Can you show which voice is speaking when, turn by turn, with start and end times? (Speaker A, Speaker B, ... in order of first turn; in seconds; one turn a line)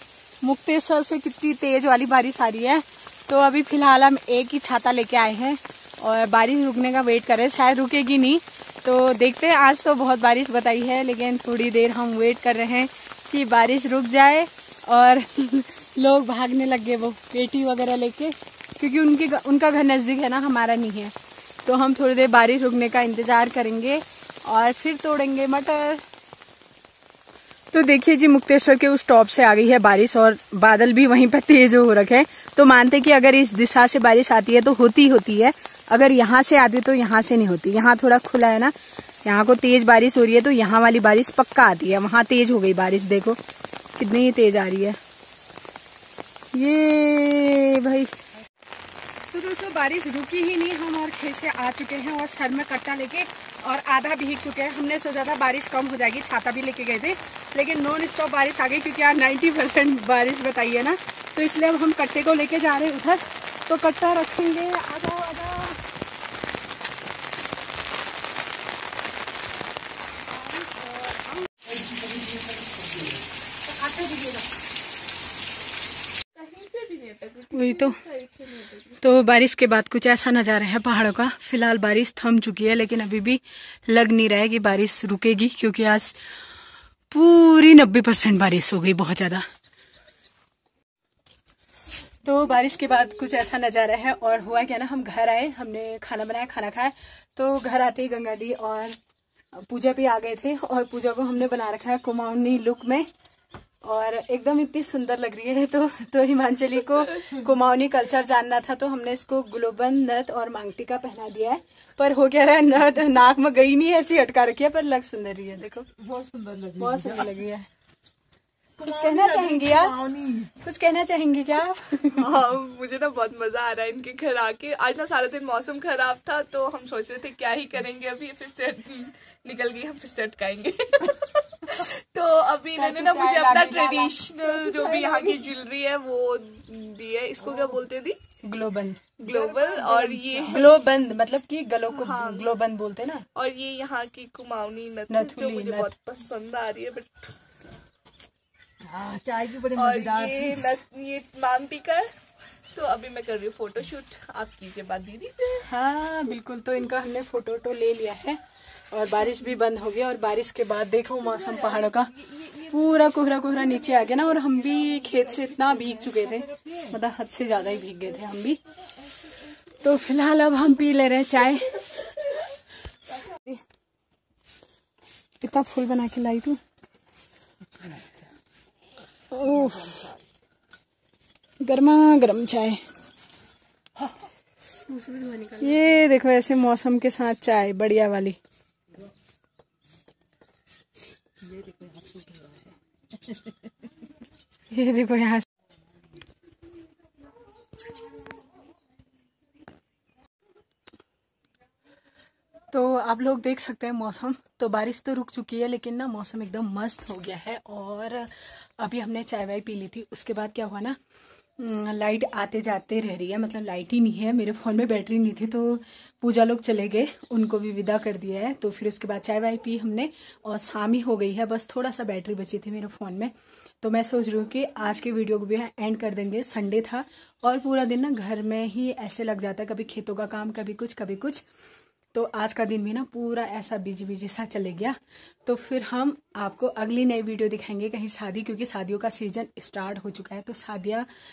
Speaker A: 0.4-21.1
Speaker A: 21.6-26.0
Speaker A: 27.7-43.4
Speaker A: 44.0-45.0
Speaker A: 46.5-48.1
Speaker A: 49.3-65.8
Speaker A: 73.7-74.4
Speaker B: 76.3-79.0
Speaker A: 77.5-78.0
Speaker A: 79.0-86.2
Speaker A: 87.1-89.4
Speaker A: 92.2-99.0
Speaker A: 99.5-103.1
Speaker A: 103.8-115.9
Speaker C: 116.0-117.3
Speaker A: 116.8-117.7
Speaker C: 118.8-120.5
Speaker A: 118.8-120.0
Speaker A: 120.6-122.4
Speaker B: 122.2-138.2
Speaker A: 132.8-135.4
Speaker A: 138.4-139.1
Speaker B: 139.2-140.7
Speaker C: 139.2-140.5
Speaker A: 140.4-143.2
Speaker B: 141.9-142.5
Speaker B: 143.3-147.3
Speaker A: 145.1-145.9
Speaker C: 148.8-150.7
Speaker B: 149.8-152.1
Speaker B: 152.7-155.7
Speaker A: 155.7-158.4
Speaker A: 158.9-168.6
Speaker A: 169.8-172.1
Speaker A: 175.4-176.6
Speaker C: 177.7-178.3
Speaker A: 179.3-180.1
Speaker C: 179.4-180.2
Speaker A: 181.6-182.8
Speaker C: 185.0-185.5
Speaker A: 185.5-188.4
Speaker C: 191.4-193.7
Speaker A: 194.7-195.5
Speaker A: 202.7-211.0
Speaker A: 211.6-231.4
Speaker A: 232.1-241.1